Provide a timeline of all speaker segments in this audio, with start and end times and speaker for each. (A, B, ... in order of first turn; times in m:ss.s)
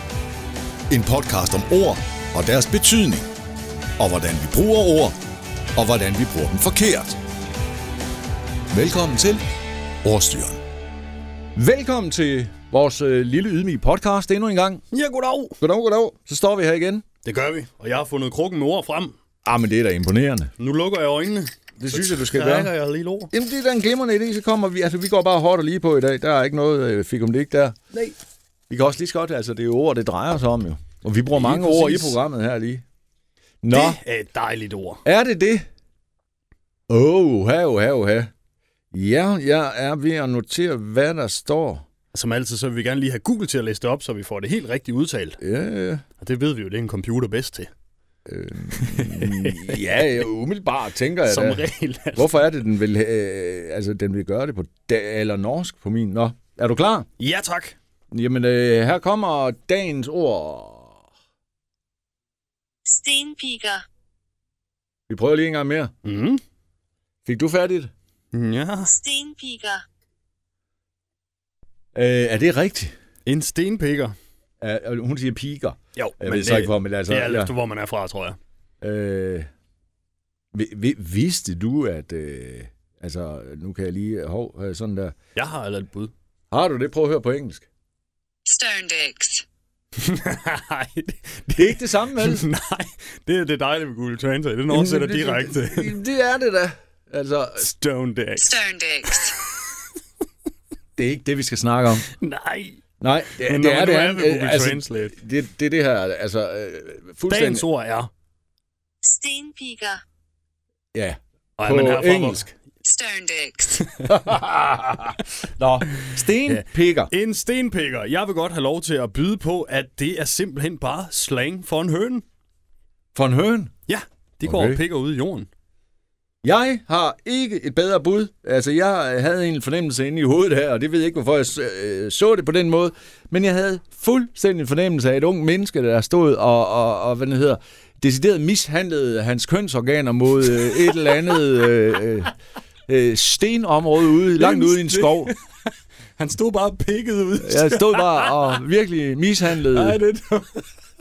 0:00.9-0:03.3 A
0:04.0-0:05.2 A
0:05.8-0:07.2 A
0:08.7-0:09.4 A
0:10.0-0:10.6 A
0:11.6-0:14.8 A
0:14.9-0:15.6 B
0:15.6-0:17.0 A
0:17.2-0:19.1 B
0:19.4-0:20.5 A
0:20.6-0:23.3 B
0:21.8-0:22.7 A
0:23.3-0:27.8 A
0:28.7-0:32.8 A
0:31.3-0:32.2 B
0:33.6-0:34.0 A
0:33.7-0:35.0 B
0:35.0-0:35.7 A
0:36.9-0:38.3 A
0:38.9-0:41.9 A
0:42.1-0:45.4 B
0:45.4-0:46.0 A
0:46.2-0:47.7 B
0:48.3-0:51.6 A
0:48.7-0:50.0 B
0:51.3-0:52.3 B
0:52.2-0:57.1 A
0:57.2-0:57.8 B
0:58.1-1:01.0 A
1:02.9-1:03.8 C
1:05.1-1:05.9 A
1:06.0-1:06.4 B
1:07.2-1:07.9 A
1:08.3-1:09.0 B
1:08.9-1:09.8 C
1:12.0-1:12.9 A
1:13.3-1:14.2 B
1:14.6-1:17.5 A
1:16.0-1:18.4 B
1:18.8-1:19.5 A
1:20.5-1:25.1 A
1:25.4-1:26.1 B
1:26.5-1:27.7 A
1:28.5-1:29.4 C
1:30.0-1:36.0 B
1:31.6-1:32.5 A
1:34.7-1:37.7 A
1:37.6-1:39.5 B
1:38.4-1:39.3 C
1:41.0-1:42.1 A
1:42.1-1:42.8 B
1:43.0-1:47.7 A
1:43.3-1:45.2 B
1:47.3-1:48.1 B
1:49.0-1:50.0 C
1:50.9-1:52.4 A
1:51.6-1:52.5 B
1:52.8-1:53.9 C
1:54.0-1:57.1 A
1:56.4-2:02.2 B
2:03.2-2:03.7 A
2:03.9-2:05.5 B
2:04.4-2:04.8 A
2:06.4-2:22.3 A
2:20.8-2:21.2 B
2:22.9-2:25.3 A
2:24.4-2:25.5 B
2:26.2-2:28.6 B
2:27.4-2:30.0 A
2:29.6-2:30.7 B